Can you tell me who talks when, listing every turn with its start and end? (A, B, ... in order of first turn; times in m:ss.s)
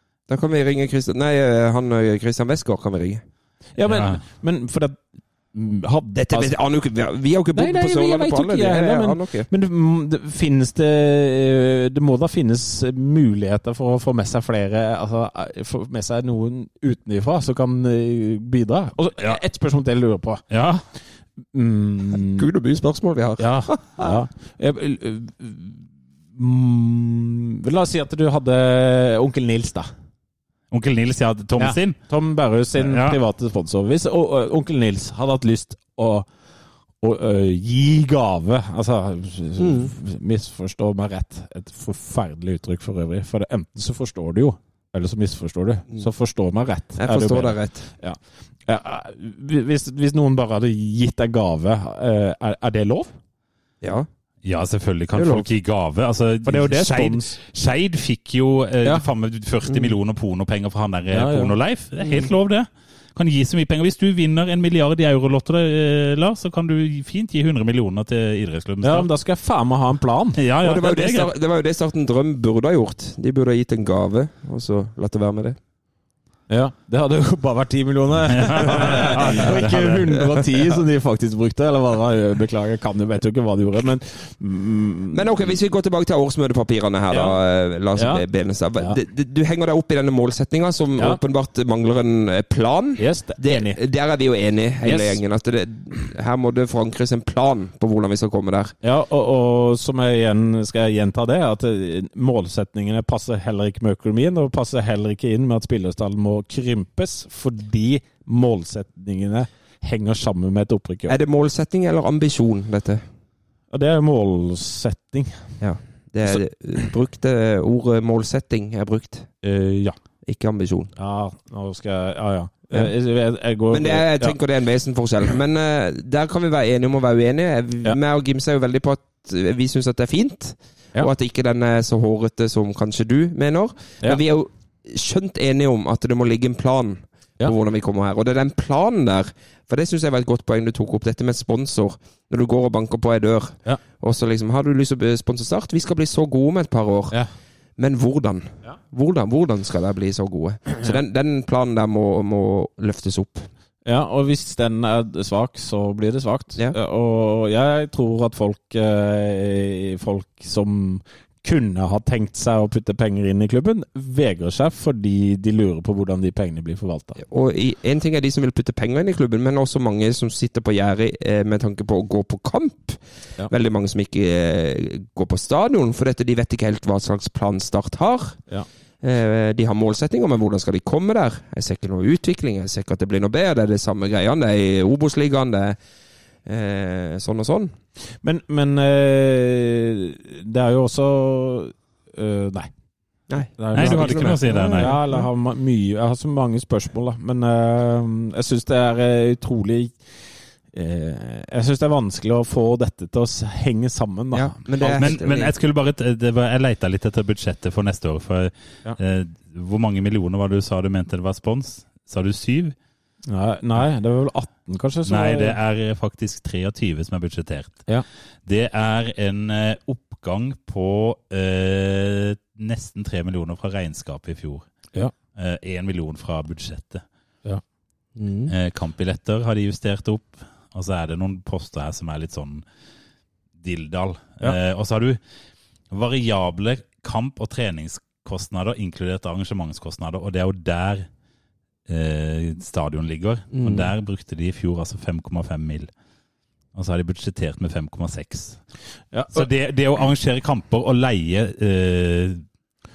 0:00.3-0:03.2 A
0:03.7-0:05.0 B
0:03.8-0:04.2 C
0:05.5-0:06.5 B
0:06.1-0:09.5 A
0:07.5-0:20.4 B
0:20.5-0:20.8 C
0:21.5-0:22.5 B
0:22.2-0:24.2 A
0:23.4-0:25.8 B
0:26.3-0:29.9 B
0:30.7-0:32.0 C
0:31.6-0:36.3 B
0:32.8-0:33.2 C
0:37.0-0:53.1 B
0:39.6-0:39.9 A
0:47.0-0:47.9 A
0:53.8-0:54.1 A
0:54.4-1:09.1 C
0:55.1-0:55.4 A
0:56.4-0:57.4 B
1:01.1-1:01.5 B
1:02.0-1:02.3 A
1:08.8-1:10.4 B
1:10.4-1:11.3 C
1:10.6-1:15.6 A
1:16.5-1:25.5 B
1:18.3-1:20.1 C
1:18.8-1:19.4 A
1:25.1-1:38.7 A
1:27.1-1:27.4 B
1:27.9-1:28.2 B
1:33.0-1:33.8 B
1:34.8-1:35.2 B
1:38.8-1:51.2 B
1:51.1-1:53.0 A
1:53.7-1:55.5 B
1:55.6-1:59.3 A
1:59.4-2:00.0 B
2:00.2-2:00.9 A
2:01.0-2:04.4 B
2:03.7-2:27.2 A
2:27.8-2:33.5 A
2:33.8-2:47.2 B
2:47.2-2:58.4 A
2:59.0-3:05.8 A
3:06.4-3:07.7 A
3:08.2-3:12.7 B
3:13.3-3:15.2 A
3:13.6-3:20.0 B
3:13.7-3:14.9 C
3:20.7-3:25.2 B
3:24.3-3:25.5 A
3:24.8-3:32.7 C
3:33.3-3:35.6 B
3:35.0-3:37.8 C
3:38.5-3:44.6 C
3:45.4-3:47.0 C
3:48.2-3:48.5 A
3:48.5-3:52.6 C
3:53.6-3:55.2 C
3:55.9-4:01.1 C
4:01.9-4:05.9 C
4:03.5-4:03.9 A
4:06.7-4:08.6 C
4:09.1-4:09.5 B
4:09.3-4:12.4 C